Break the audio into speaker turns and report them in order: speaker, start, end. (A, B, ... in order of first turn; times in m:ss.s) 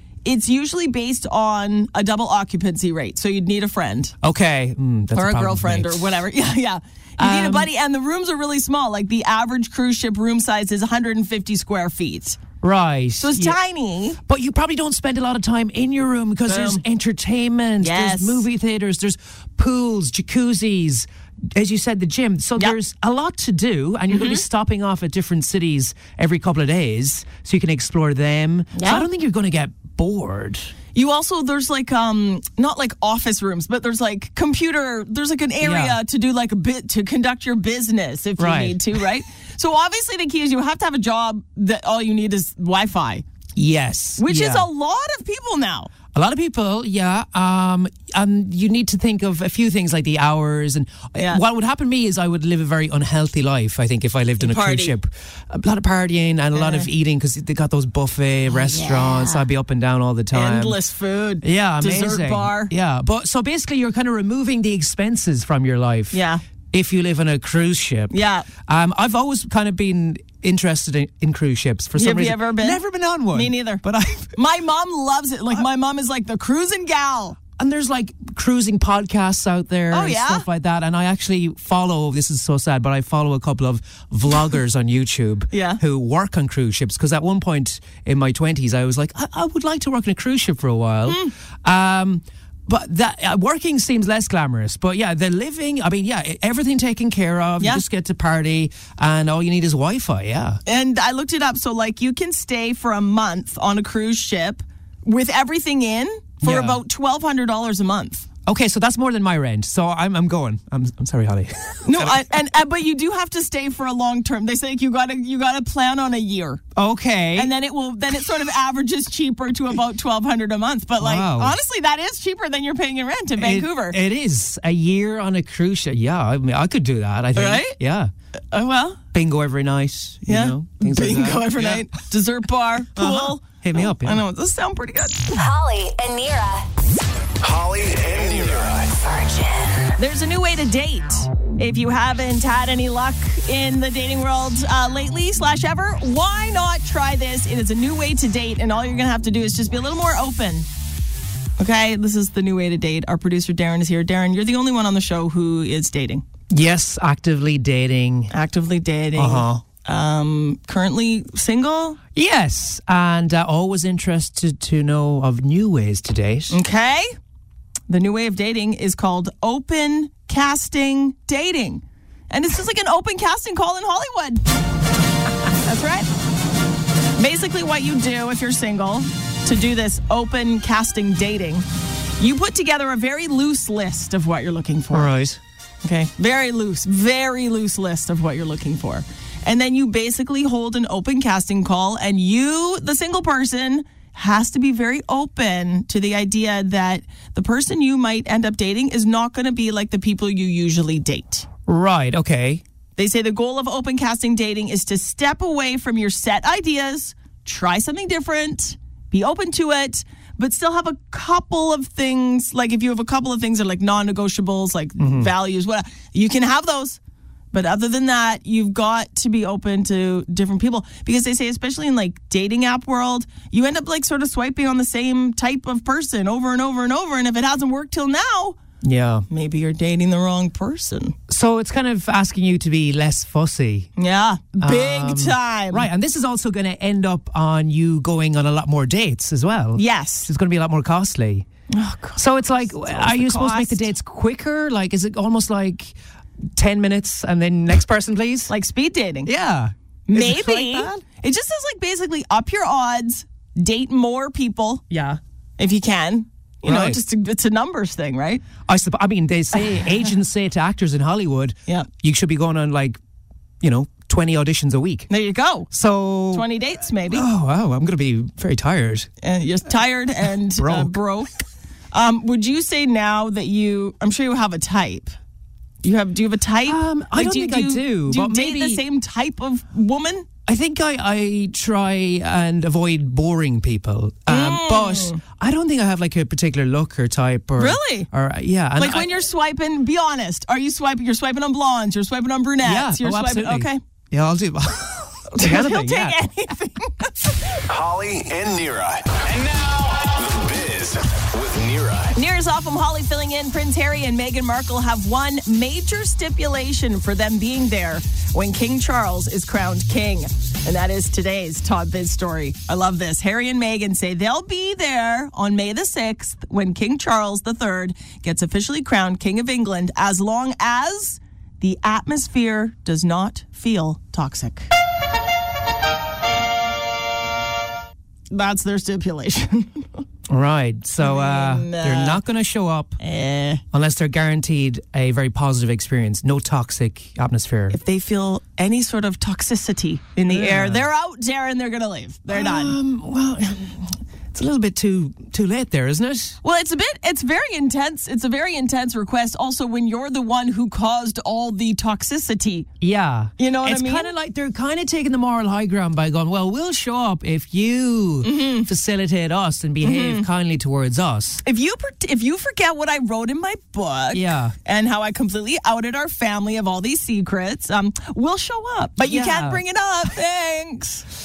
0:00.2-0:04.1 A
0:04.2-0:06.2 B
0:05.1-0:12.4 A
0:07.2-0:07.7 B
0:12.6-0:13.6 B
0:13.2-0:14.2 A
0:14.3-0:30.6 B
0:16.4-0:16.8 A
0:17.8-0:18.4 A
0:24.1-0:24.4 A
0:28.8-0:29.0 A
0:30.9-0:43.2 A
0:35.6-0:36.0 B
0:38.4-0:38.9 B
0:43.6-0:44.7 B
0:44.2-0:45.9 A
0:46.1-1:00.8 B
0:51.2-0:51.4 A
0:54.4-0:55.0 A
0:56.5-0:56.9 A
0:58.5-0:59.4 A
1:00.3-1:02.7 A
1:01.4-1:14.3 B
1:06.1-1:06.4 A
1:08.1-1:08.5 A
1:12.0-1:17.4 A
1:17.6-1:40.6 B
1:19.9-1:20.4 A
1:25.5-1:25.8 A
1:31.1-1:31.3 A
1:40.6-1:48.3 A
1:46.4-1:46.8 B
1:48.4-1:52.2 B
1:51.8-1:56.6 A
1:56.8-1:57.5 B
1:57.4-2:04.0 A
2:01.0-2:01.6 B
2:03.4-2:08.1 B
2:07.3-2:07.8 A
2:08.5-2:09.0 A
2:09.1-2:11.8 B
2:10.2-2:15.5 A
2:12.9-2:14.2 B
2:15.3-2:16.7 C
2:17.4-2:18.9 D
2:18.9-2:19.9 C
2:20.0-2:30.7 A
2:31.6-2:36.2 A
2:36.5-2:38.3 B
2:38.3-2:42.0 A
2:39.2-2:39.6 B
2:42.1-2:46.6 B
2:46.5-2:47.1 A
2:47.9-2:54.4 A
2:55.6-2:56.1 A
2:57.2-3:01.6 A
3:02.2-3:05.1 A
3:04.9-3:05.4 B
3:05.8-3:21.5 A
3:21.7-3:22.6 B
3:23.0-3:37.0 A
3:35.0-3:35.3 B
3:37.5-3:48.6 A
3:48.8-3:49.2 B
3:49.3-3:51.1 A
3:51.3-3:53.9 B
3:54.0-3:55.9 A
3:54.6-4:01.4 B
3:59.8-4:00.3 A
4:01.7-4:03.9 A
4:02.2-4:05.9 B
4:06.6-4:08.5 B
4:08.5-4:09.3 A
4:09.2-4:11.0 B
4:10.1-4:14.8 A
4:14.9-4:15.2 B
4:15.6-4:18.4 A
4:16.6-4:17.0 B
4:18.6-4:23.0 B
4:23.6-4:25.1 B
4:25.1-4:25.7 A
4:25.7-4:26.4 B
4:26.3-4:27.2 A
4:27.1-4:29.1 B
4:29.2-4:31.3 A
4:30.6-4:30.9 B
4:31.9-4:35.1 A
4:35.8-4:40.3 A
4:36.6-4:38.8 B
4:40.4-4:49.1 B
4:44.3-4:45.2 A
4:47.6-4:48.1 A
4:48.8-4:53.8 A
4:52.6-4:56.2 B
4:55.3-4:57.5 A
4:57.7-5:02.1 D
5:02.1-5:24.7 A
5:28.3-5:30.0 A
5:30.3-5:33.0 B
5:31.0-5:32.2 A
5:33.0-5:33.6 A
5:33.7-5:37.8 B
5:37.7-5:42.8 A
5:40.3-5:40.8 B
5:42.3-5:46.4 B
5:46.4-5:52.7 A
5:52.8-6:01.4 B
5:53.4-5:54.1 A
5:58.2-5:58.7 A
5:59.8-6:00.2 A
6:01.4-6:11.0 A
6:04.1-6:04.5 B
6:09.0-6:09.6 B